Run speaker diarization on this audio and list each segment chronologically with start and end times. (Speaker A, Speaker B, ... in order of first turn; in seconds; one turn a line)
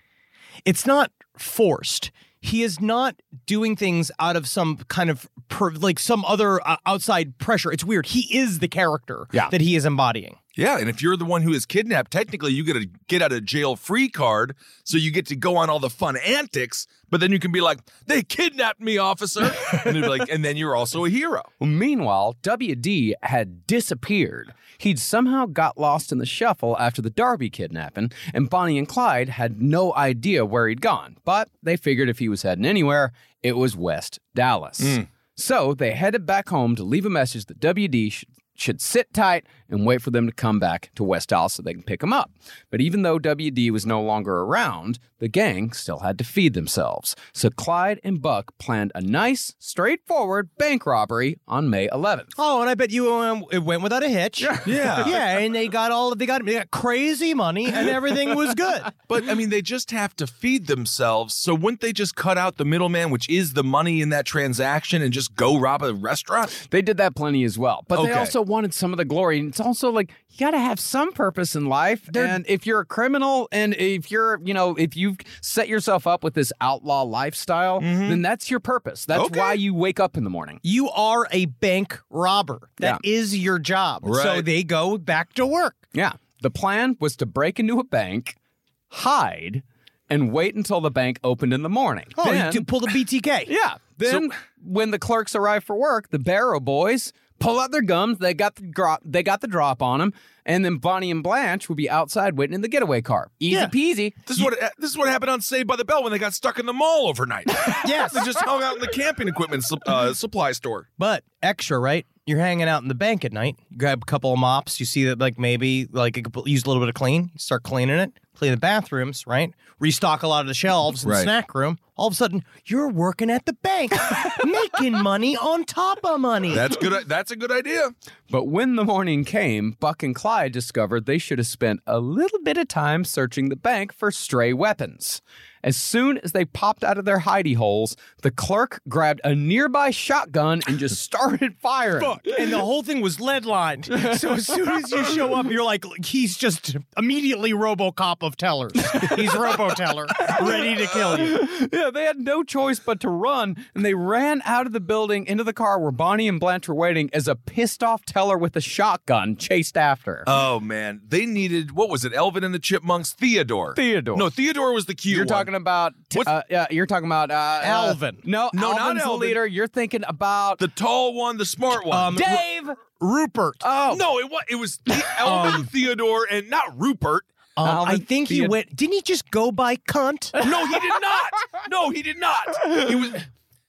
Speaker A: 0.7-10.4
Speaker B: 10.6-21.5
Speaker C: 21.6-52.3
Speaker A: 52.4-58.9
Speaker C: 54.4-55.1
Speaker B: 54.6-55.2
Speaker B: 59.1-66.5
Speaker C: 66.6-80.6
Speaker B: 67.9-68.3
Speaker B: 77.8-78.2
Speaker B: 79.1-79.6
Speaker A: 80.6-85.8
Speaker B: 84.0-84.5
Speaker C: 85.9-88.3
Speaker C: 88.9-92.7
Speaker A: 92.2-93.5
Speaker C: 93.5-104.2
Speaker B: 104.3-110.9
Speaker A: 107.8-108.3
Speaker A: 111.0-126.6
Speaker B: 121.0-121.3
Speaker B: 126.5-127.9
Speaker C: 128.3-142.2
Speaker A: 142.0-151.4
Speaker C: 150.2-150.6
Speaker C: 151.1-160.3
Speaker B: 160.2-165.5
Speaker C: 163.7-164.2
Speaker C: 165.1-170.6
Speaker A: 167.6-168.2
Speaker B: 168.5-169.4
Speaker B: 170.6-172.2
Speaker A: 171.9-173.6
Speaker C: 172.2-172.4
Speaker C: 173.6-174.0
Speaker B: 173.9-177.3
Speaker A: 175.2-175.7
Speaker A: 177.6-180.4
Speaker C: 177.6-178.6
Speaker B: 180.4-183.2